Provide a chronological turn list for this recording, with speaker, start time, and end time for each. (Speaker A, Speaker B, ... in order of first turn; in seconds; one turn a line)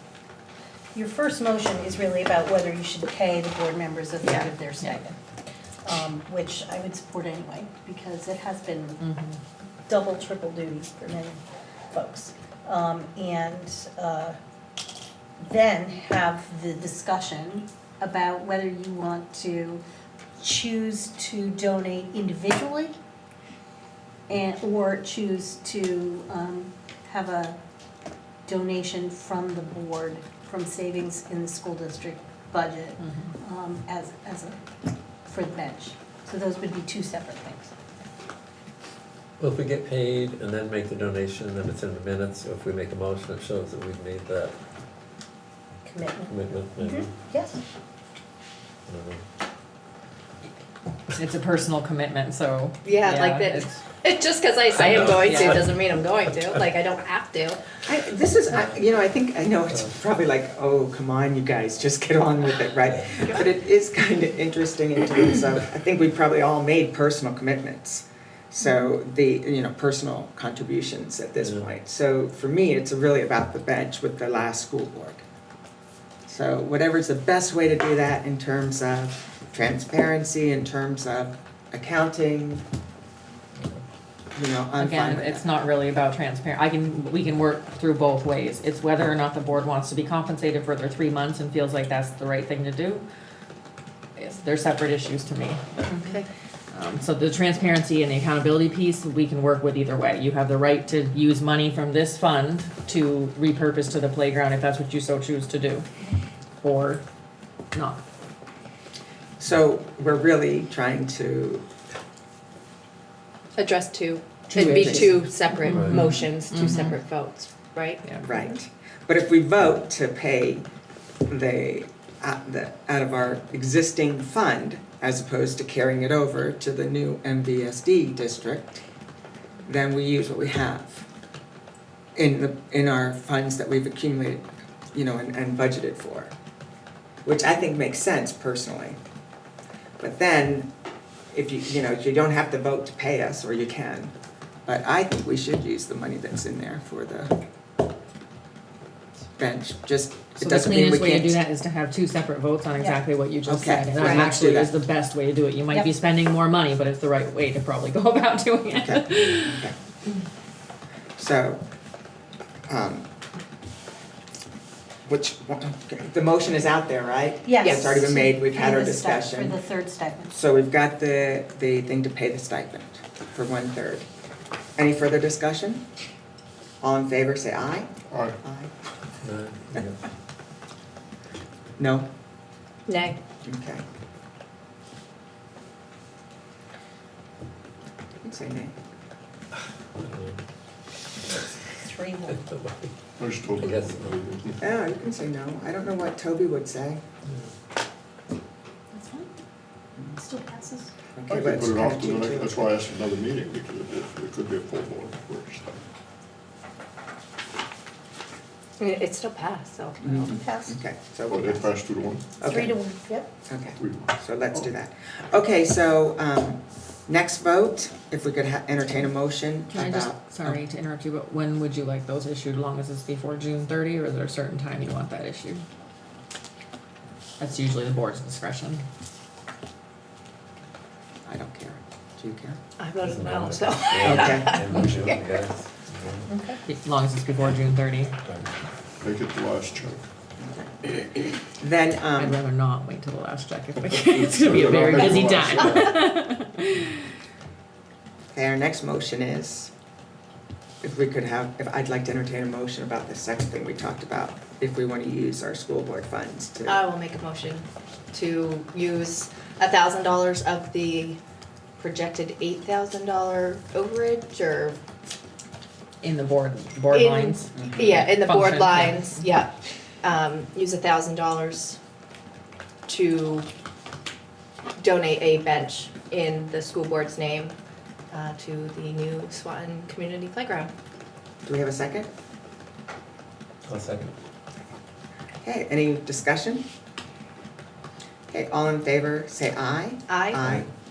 Speaker A: 0.9-5.2
Speaker B: 4.2-5.0
Speaker A: 5.8-9.0
Speaker B: 9.0-9.4
Speaker A: 9.9-14.4
Speaker A: 15.4-19.8
Speaker A: 20.4-22.9
Speaker A: 24.3-27.6
Speaker A: 28.5-34.6
Speaker B: 33.0-33.3
Speaker A: 35.2-37.7
Speaker C: 39.4-44.5
Speaker A: 45.8-47.6
Speaker C: 46.3-47.2
Speaker C: 48.9-49.2
Speaker B: 51.1-53.8
Speaker D: 52.8-57.6
Speaker C: 54.8-55.5
Speaker B: 55.0-55.7
Speaker E: 57.8-75.2
Speaker C: 71.4-71.7
Speaker E: 76.3-82.6
Speaker E: 84.3-85.5
Speaker B: 84.8-93.0
Speaker B: 94.2-105.8
Speaker B: 106.6-107.0
Speaker B: 107.7-108.0
Speaker E: 109.4-111.7
Speaker D: 113.5-118.0
Speaker B: 114.5-117.0
Speaker E: 114.7-115.2
Speaker C: 115.7-116.1
Speaker E: 118.2-120.6
Speaker E: 121.3-128.8
Speaker E: 129.7-131.1
Speaker E: 132.2-136.3
Speaker E: 137.2-139.0
Speaker E: 140.0-140.7
Speaker E: 141.3-144.1
Speaker E: 144.7-147.3
Speaker E: 149.4-151.4
Speaker B: 150.4-159.6
Speaker E: 153.4-154.7
Speaker D: 154.0-154.3
Speaker E: 158.8-159.8
Speaker E: 161.2-161.6
Speaker E: 162.7-163.1
Speaker E: 165.1-169.6
Speaker A: 167.4-170.3
Speaker D: 167.6-168.0
Speaker E: 170.3-174.1
Speaker E: 174.8-175.8
Speaker E: 176.8-177.9
Speaker F: 178.1-178.3
Speaker E: 178.4-178.7
Speaker C: 179.2-180.0
Speaker E: 181.8-182.1
Speaker D: 182.9-183.2
Speaker E: 183.4-183.8
Speaker E: 188.2-188.8
Speaker C: 190.0-190.4
Speaker A: 191.8-192.5
Speaker C: 192.2-194.2
Speaker F: 193.2-194.6
Speaker E: 194.6-197.0
Speaker A: 198.9-199.3
Speaker A: 200.2-200.9
Speaker E: 201.2-202.6
Speaker F: 201.3-205.8
Speaker D: 208.8-210.4
Speaker E: 210.0-211.7
Speaker A: 210.2-210.8
Speaker F: 211.3-212.3
Speaker E: 212.4-212.8
Speaker A: 212.4-213.3
Speaker E: 213.5-220.6
Speaker F: 213.8-214.7
Speaker B: 219.7-225.6
Speaker B: 227.4-228.8
Speaker E: 231.2-232.6
Speaker D: 232.8-235.3
Speaker C: 233.0-236.3
Speaker E: 234.1-234.5
Speaker A: 236.3-236.6
Speaker B: 236.6-238.1
Speaker C: 238.2-238.5
Speaker F: 239.0-240.0
Speaker E: 240.4-242.4
Speaker B: 242.2-246.9
Speaker F: 244.1-246.0
Speaker C: 244.5-245.4
Speaker E: 248.3-249.7
Speaker E: 250.8-256.8
Speaker D: 256.7-261.2
Speaker D: 261.8-264.8
Speaker B: 266.0-269.2
Speaker D: 266.9-269.5
Speaker E: 267.6-268.0
Speaker D: 270.0-271.8
Speaker D: 272.9-273.5
Speaker D: 274.8-277.6
Speaker D: 278.1-280.7
Speaker E: 281.4-282.1
Speaker C: 283.7-284.1
Speaker E: 285.4-286.6
Speaker E: 288.3-290.7
Speaker D: 290.1-290.6